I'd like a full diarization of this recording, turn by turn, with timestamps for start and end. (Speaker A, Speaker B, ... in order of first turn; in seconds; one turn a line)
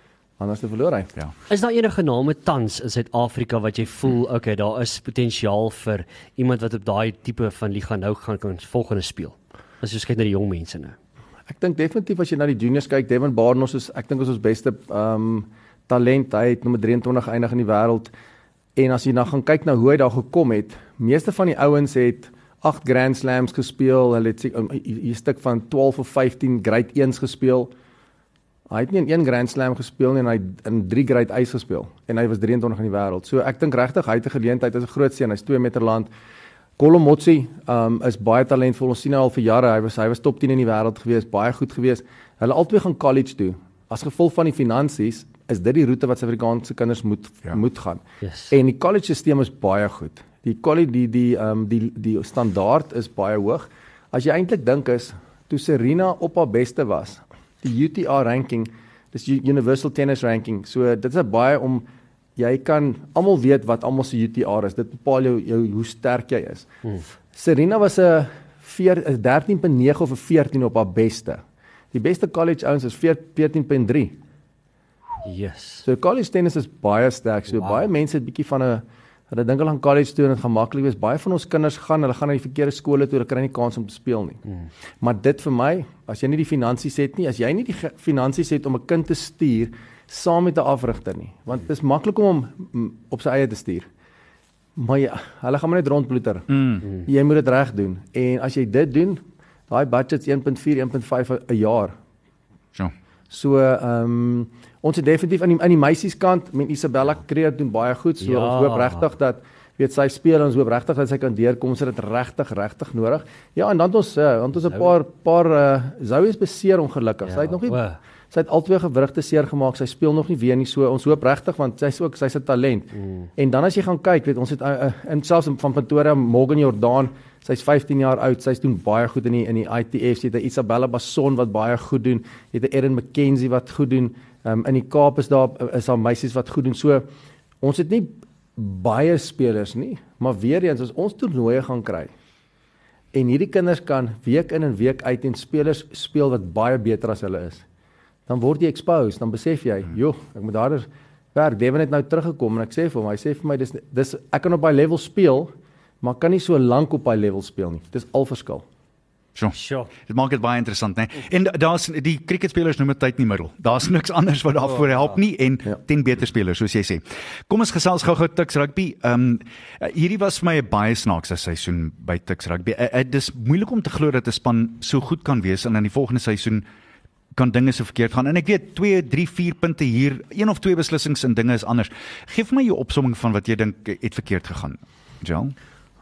Speaker A: 0.4-1.1
Speaker B: 1.5-11.0
Speaker A: 11.5-18.1
Speaker A: 18.8-27.7
Speaker A: 28.7-36.1
Speaker A: 36.8-66.7
Speaker B: 48.2-48.5
Speaker A: 67.3-71.4
Speaker A: 71.9-74.2
Speaker B: 75.2-75.9
Speaker A: 75.8-84.4
Speaker B: 77.5-77.9
Speaker A: 85.0-93.9
Speaker A: 94.8-102.0
Speaker C: 96.5-96.8
Speaker A: 103.3-117.8
Speaker B: 108.2-109.1
Speaker B: 114.6-114.9
Speaker B: 117.3-118.0
Speaker A: 118.3-137.1
Speaker B: 122.9-123.3
Speaker A: 137.6-142.1
Speaker A: 143.1-147.7
Speaker A: 148.3-158.6
Speaker C: 159.4-176.7
Speaker B: 159.5-159.9
Speaker B: 164.7-165.1
Speaker C: 177.3-185.6